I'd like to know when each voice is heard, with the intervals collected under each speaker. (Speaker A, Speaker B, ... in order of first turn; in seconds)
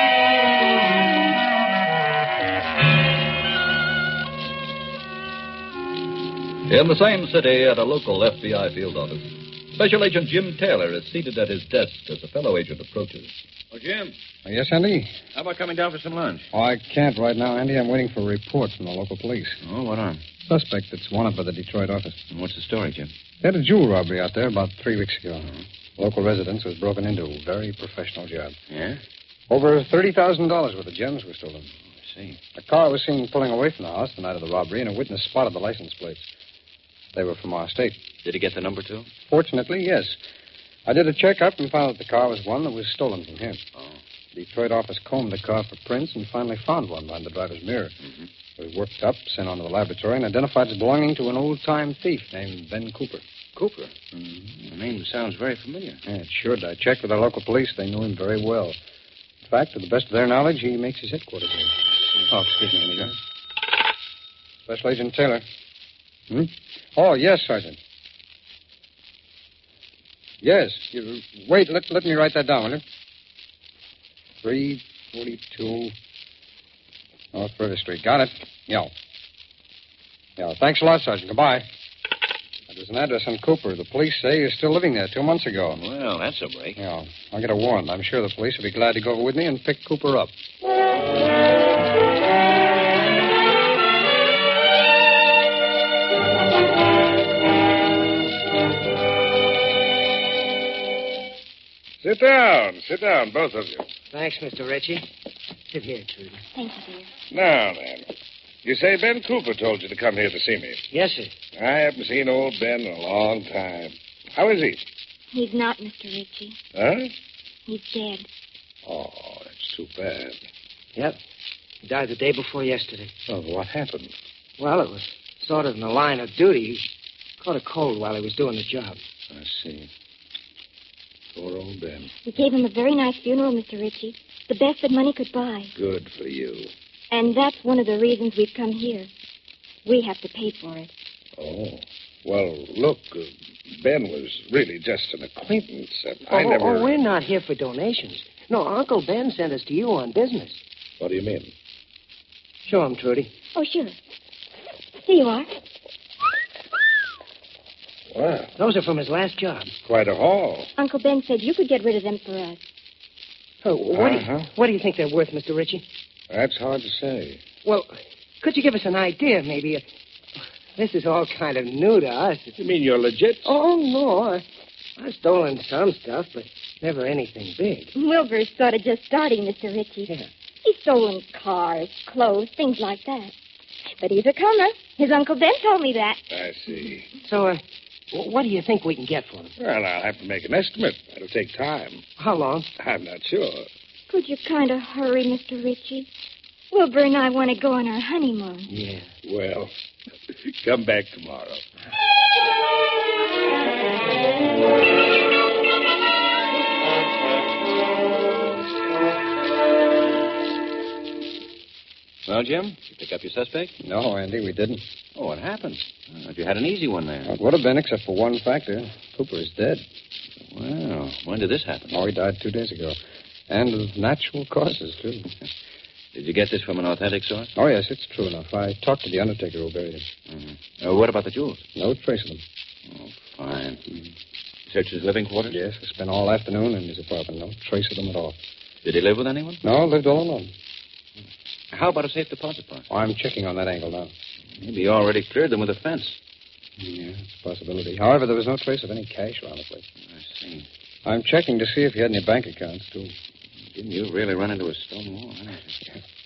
Speaker A: 6.7-13.3
Speaker B: 13.7-14.1, 15.3-16.5, 19.6-20.2, 22.3-23.1, 28.7-29.0, 32.0-32.4, 38.2-39.1, 53.5-56.0, 85.7-86.8, 212.3-213.7, 215.2-217.3, 220.4-222.0, 226.1-227.5, 230.3-231.6, 232.9-233.8, 234.7-235.6, 238.8-239.6, 241.7-242.9, 244.6-246.2, 250.0-250.7, 253.7-255.8
Speaker C: 14.4-15.1, 16.5-19.6, 20.5-22.2, 23.4-28.6, 29.5-31.7, 32.5-36.3, 37.1-38.0, 39.3-40.2, 40.9-43.6, 44.3-48.0, 48.6-53.3, 56.1-58.8, 59.4-63.2, 64.7-65.5, 66.3-67.8, 70.4-72.8, 74.4-75.9, 77.3-78.9, 80.4-81.7, 82.7-85.8, 86.8-90.3, 213.8-214.8, 217.2-219.8, 221.9-223.0, 223.5-225.3, 227.6-230.1, 231.8-232.4, 235.5-238.4, 239.6-240.5, 242.9-244.1, 246.8-249.8, 251.1-253.2
Speaker D: 102.0-103.9, 107.3-108.1, 108.6-110.8, 111.6-114.8, 116.8-117.1, 118.8-120.4, 123.3-124.1, 129.3-129.9, 131.3-132.1, 135.8-136.7, 141.4-147.0, 151.0-151.5, 158.1-158.5, 159.8-160.7, 163.9-164.5, 166.3-167.4, 172.6-173.6, 186.3-187.1, 189.6-192.1, 192.8-193.7, 199.2-199.7, 200.3-201.7
Speaker E: 104.1-105.0, 105.7-106.4, 110.9-111.3, 121.8-123.1, 124.6-126.9, 127.4-129.0, 146.3-150.6, 152.7-153.3, 158.6-159.7, 163.6-165.8, 167.7-169.8, 170.8-172.6, 173.4-174.4, 175.0-177.9, 187.2-189.5, 192.2-192.7, 198.7-199.1
Speaker F: 106.5-107.1, 115.3-116.6, 117.7-118.3, 132.2-135.7, 137.1-139.1, 139.8-140.9, 153.6-154.0, 155.0-155.5, 160.8-162.6, 177.9-180.1, 180.6-183.3, 184.0-186.2, 194.1-196.1, 196.7-198.7